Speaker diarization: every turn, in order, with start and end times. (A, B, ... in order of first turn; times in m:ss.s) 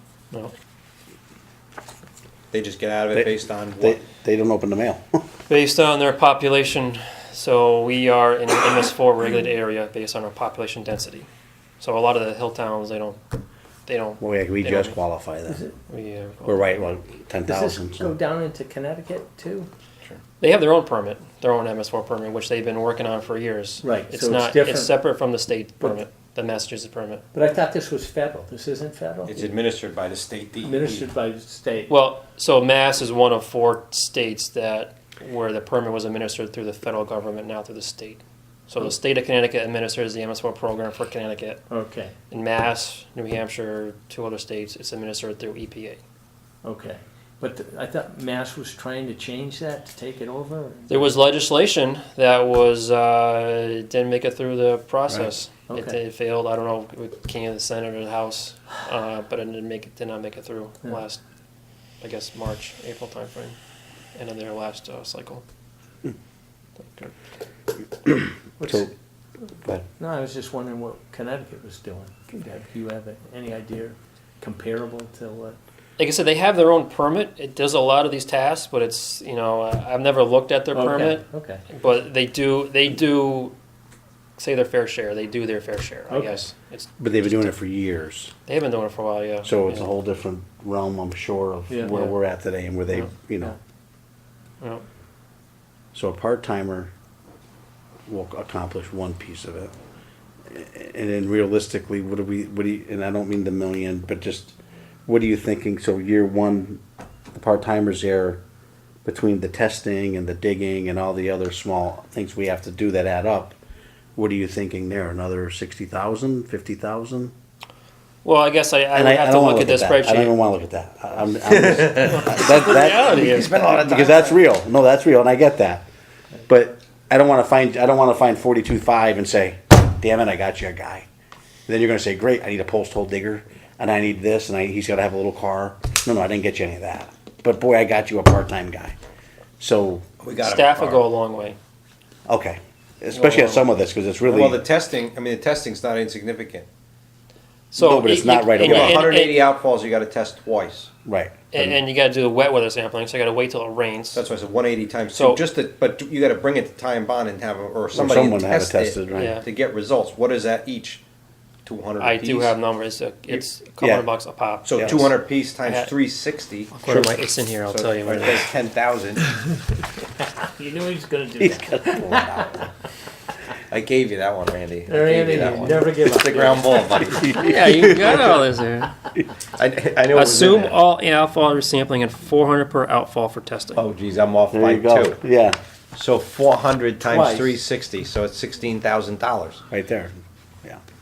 0:02.5-0:04.0 A
0:03.1-0:05.0 B
0:05.5-0:11.3 C
0:11.8-0:13.2 C
0:13.9-0:15.0 C
0:14.2-0:15.6 B
0:15.5-0:15.7 D
0:15.9-0:16.7 C
0:16.4-0:18.2 B
0:17.5-0:19.7 D
0:20.4-0:27.3 C
0:23.8-0:25.0 D
0:27.3-0:29.5 D
0:29.2-0:31.1 A
0:30.6-0:32.0 D
0:31.9-0:41.6 C
0:41.7-0:42.1 D
0:42.3-0:46.0 C
0:46.6-0:51.1 D
0:50.9-1:01.2 C
0:55.7-0:56.0 D
1:02.0-1:03.6 C
1:04.2-1:05.4 C
1:06.8-1:07.1 C
1:08.1-1:08.9 B
1:08.6-1:08.9 D
1:10.0-1:15.6 D
1:16.0-1:23.6 C
1:20.7-1:21.6 D
1:24.4-1:27.5 C
1:26.1-1:26.5 D
1:27.0-1:28.3 B
1:28.5-1:29.8 C
1:29.4-1:33.5 B
1:31.9-1:32.2 C
1:35.9-1:36.9 B
1:38.1-1:39.7 B
1:40.5-1:44.6 B
1:45.1-1:46.8 B
1:47.3-1:48.4 B
1:49.0-1:53.6 B
1:54.2-1:57.3 B
1:58.2-2:00.4 C
1:58.9-2:05.9 B
2:01.5-2:04.4 A
2:01.9-2:03.7 C
2:06.5-2:11.1 B
2:11.7-2:19.0 B
2:19.6-2:20.0 B
2:20.2-2:21.0 A
2:20.4-2:21.6 C
2:22.3-2:24.6 B
2:23.1-2:23.7 C
2:24.2-2:26.7 A
2:27.7-2:29.5 C
2:27.8-2:29.1 B
2:28.6-2:30.9 A
2:31.0-2:31.8 B
2:31.5-2:34.2 C
2:34.1-2:41.0 A
2:35.1-2:35.4 C
2:37.9-2:39.4 B
2:39.1-2:39.5 C
2:41.7-2:42.6 A
2:42.0-2:46.0 C
2:43.8-2:44.1 B
2:44.7-2:47.1 A
2:44.8-2:45.1 B
2:46.7-2:48.5 C
2:47.7-2:49.3 A
2:50.5-2:52.5 D
2:51.4-2:52.7 B
2:53.7-2:58.3 A
2:54.9-2:57.3 D
2:57.1-2:58.1 B
2:57.3-2:58.9 C
2:59.6-3:00.8 A
3:00.1-3:03.8 C
3:03.8-3:05.2 A
3:04.5-3:05.6 B
3:06.0-3:09.6 A
3:07.1-3:07.6 D
3:09.7-3:10.8 B